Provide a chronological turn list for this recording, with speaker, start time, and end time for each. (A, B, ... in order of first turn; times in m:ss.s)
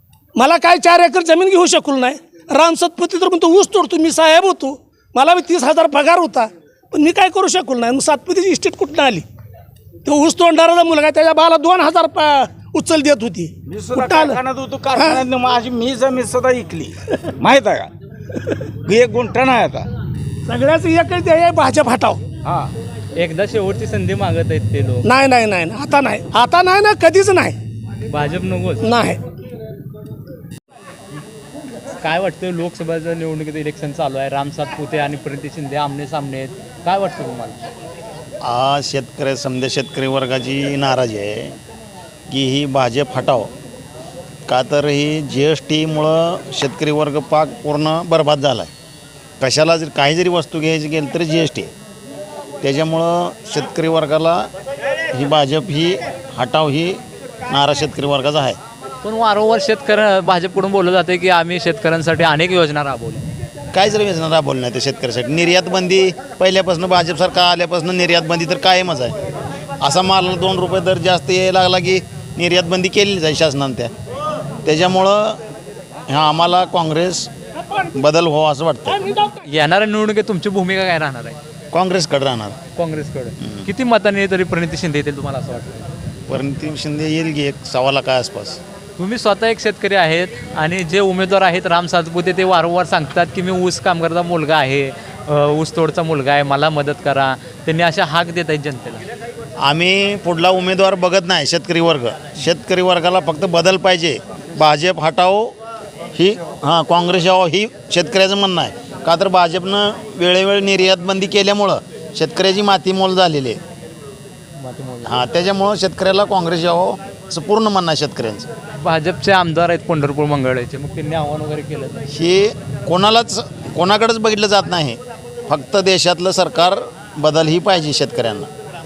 0:00.3-0:09.2 A
0:10.0-0:14.4 A
0:13.6-0:17.9 B
0:14.9-0:15.2 A
0:18.8-0:19.9 B
0:20.4-0:22.2 A
0:22.4-0:22.7 B
0:23.2-0:25.0 C
0:25.0-0:27.6 A
0:28.1-0:28.8 C
0:28.8-0:29.2 A
0:32.0-0:37.6 C
0:38.4-0:41.6 D
0:42.3-0:43.5 D
0:44.5-0:48.7 D
0:49.4-0:51.7 D
0:52.6-0:54.5 D
0:55.1-0:58.6 D
0:59.0-1:03.2 C
1:03.7-1:09.2 D
1:09.8-1:13.9 D
1:14.6-1:15.4 D
1:16.1-1:17.3 D
1:17.9-1:18.9 D
1:18.9-1:19.3 A
1:19.4-1:21.4 C
1:21.7-1:22.6 D
1:22.7-1:25.9 C
1:26.3-1:28.6 D
1:29.0-1:39.0 C
1:39.6-1:45.5 D
1:46.1-1:53.6 D
1:54.6-1:55.2 C
1:55.0-1:58.5 D
1:58.8-2:02.0 C
2:02.1-2:08.5 D